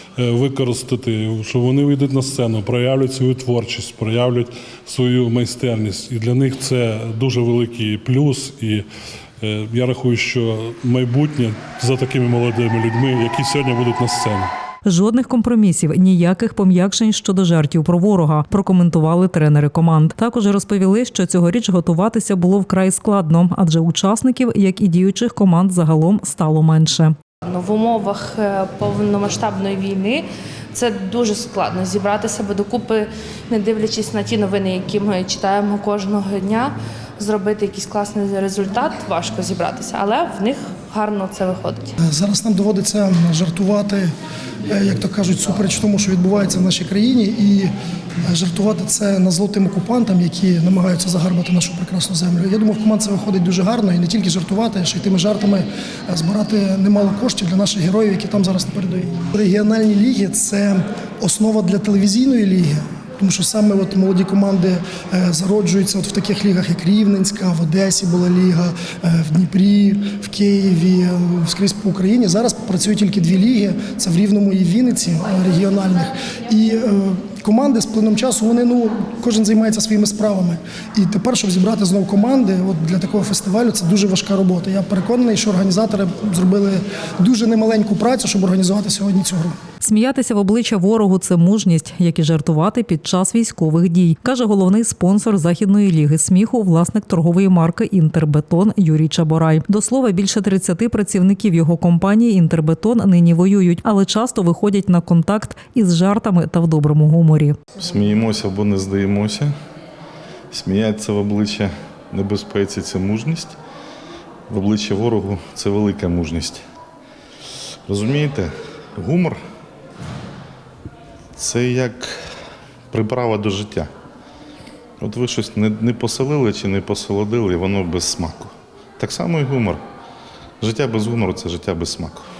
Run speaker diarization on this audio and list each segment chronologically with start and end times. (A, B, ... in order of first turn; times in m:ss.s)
0:00.2-0:08.8 A
0:09.4-0:14.5 A
0:14.8-0:27.2 B
0:27.4-0:41.9 C
0:42.0-0:44.1 D
0:44.7-0:47.7 D
0:48.2-1:29.6 D
1:29.8-1:47.6 B
1:47.7-1:49.5 E
1:50.5-1:53.6 E
1:54.5-1:56.6 E
1:57.8-1:59.4 E
2:01.4-2:02.2 E
2:02.9-2:03.9 E
2:05.0-2:09.8 E
2:10.6-2:12.3 E